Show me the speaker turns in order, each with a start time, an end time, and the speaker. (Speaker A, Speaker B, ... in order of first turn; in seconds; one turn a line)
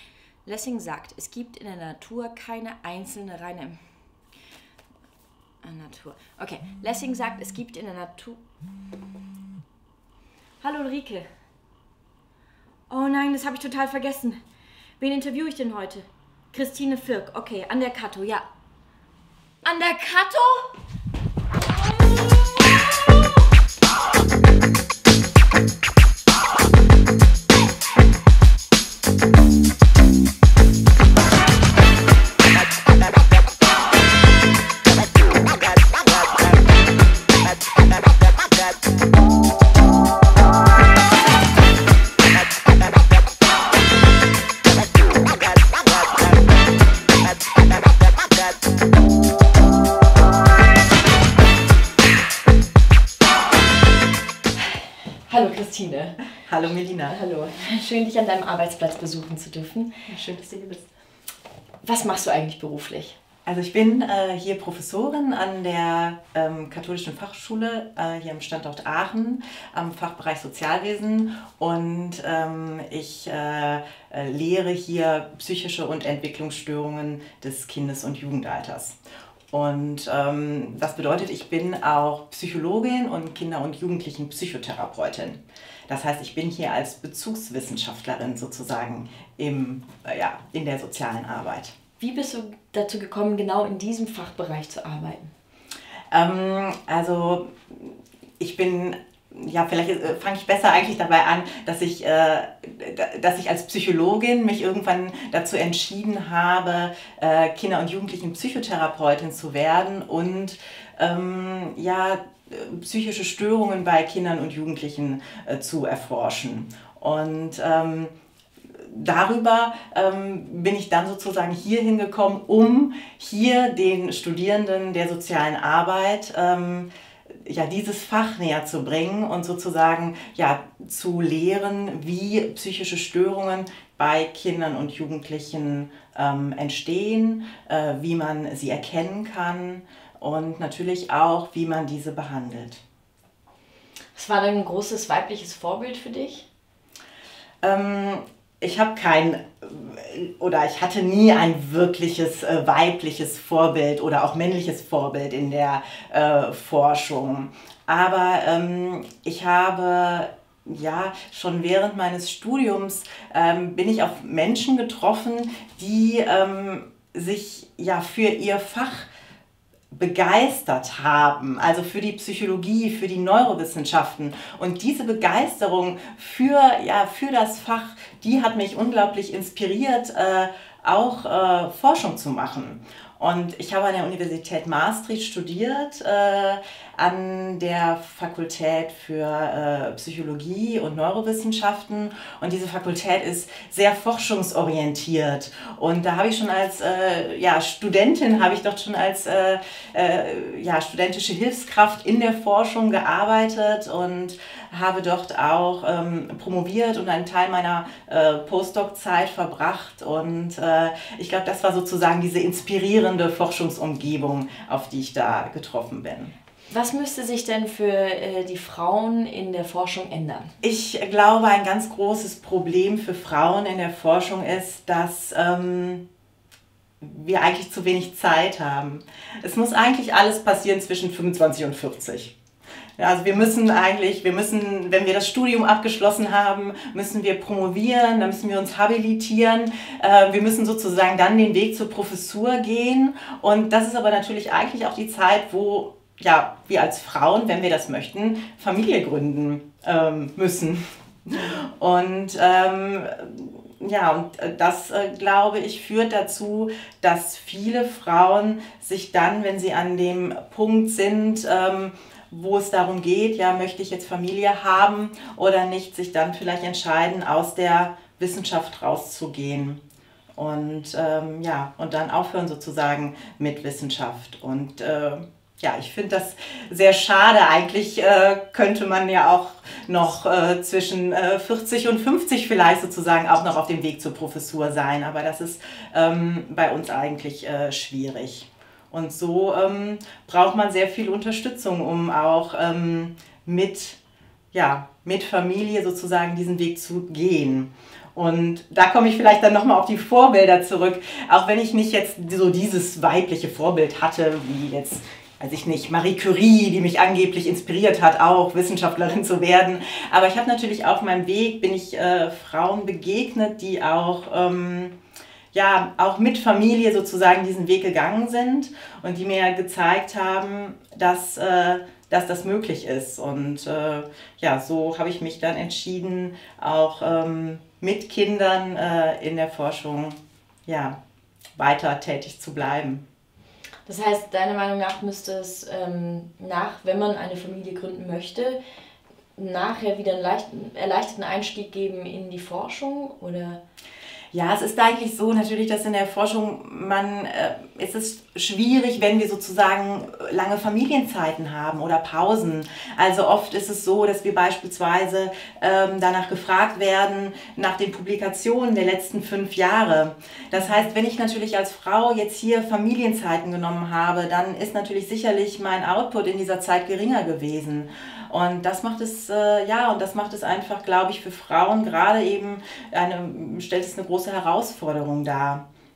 Speaker A: 0.4-3.8
Speaker A: 5.6-8.4
Speaker A: 10.6-11.3
Speaker A: 12.9-14.4
Speaker A: 15.0-18.4
Speaker A: 19.6-20.7
Speaker A: 54.6-56.2
Speaker B: 56.5-57.1
Speaker A: 57.1-59.9
Speaker B: 60.1-60.9
Speaker A: 61.8-63.2
Speaker B: 63.5-79.0
Speaker B: 79.5-91.7
Speaker A: 92.0-95.3
Speaker B: 96.1-118.1
Speaker B: 118.8-126.9
Speaker B: 127.5-142.8
Speaker A: 144.1-146.4
Speaker B: 147.6-169.1
Speaker B: 169.9-216.3
Speaker A: 216.7-220.5
Speaker B: 220.6-226.0
Speaker B: 227.0-232.3
Speaker B: 233.0-269.8
Speaker B: 270.4-294.0
Speaker B: 294.5-314.9
Speaker B: 315.5-330.9
Speaker B: 331.6-333.0
Speaker A: 333.9-338.6
Speaker A: 339.4-343.6
Speaker B: 344.3-375.6